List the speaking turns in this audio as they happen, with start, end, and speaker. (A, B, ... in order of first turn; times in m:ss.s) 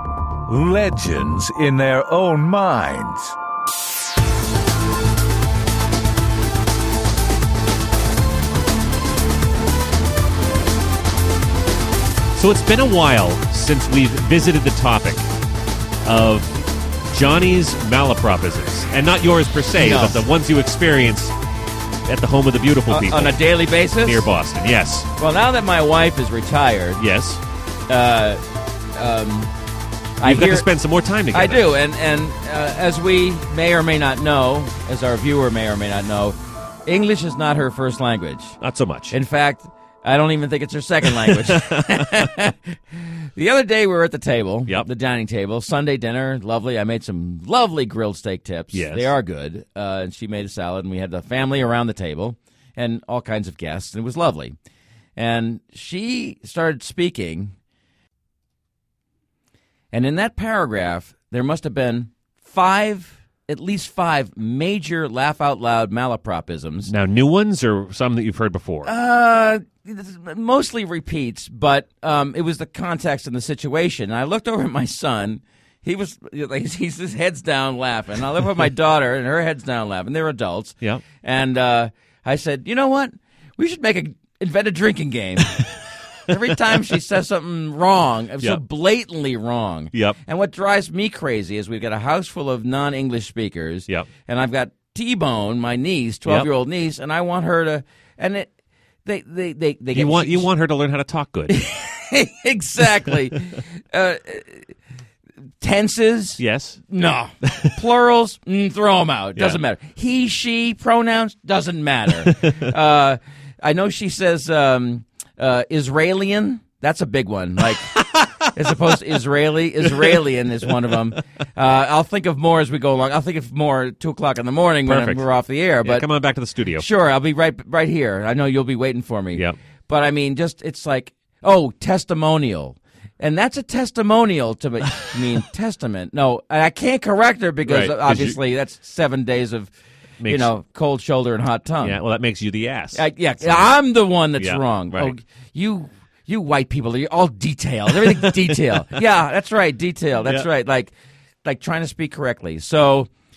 0:00.5-0:03.4 A
0:12.3-0:15.2 B
0:16.0-0:16.5 B
0:17.1-0:21.3 B
0:19.8-0:20.2 C
0:22.0-0:25.1 B
0:22.9-0:24.2 C
0:25.2-0:27.0 C
0:27.0-0:27.4 B
0:27.9-0:28.4 C
0:28.9-0:29.5 C
0:30.2-0:30.6 C
0:30.2-0:31.7 B
0:31.3-0:38.6 C
0:38.6-0:39.1 B
0:39.1-0:42.8 C
0:41.0-0:42.3 B
0:43.3-0:54.5 C
0:48.7-0:49.1 B
0:55.2-0:57.5 C
0:59.9-1:06.9 C
1:06.9-1:08.9 B
1:08.8-1:38.5 C
1:29.9-1:30.2 B
1:39.0-1:40.5 C
1:39.9-1:41.6 B
1:41.5-1:44.6 C
1:45.6-1:57.9 C
1:46.4-1:46.8 B
1:57.9-1:58.3 B
1:58.5-2:06.0 C
2:04.8-2:05.2 B
2:05.8-2:06.8 B
2:06.8-2:19.7 C
2:17.6-2:18.4 B
2:20.2-2:20.5 B
2:20.2-2:22.0 C
2:21.8-2:23.7 B
2:22.9-2:30.9 C
2:24.4-2:25.1 B
2:28.0-2:28.4 B
2:31.4-2:33.1 C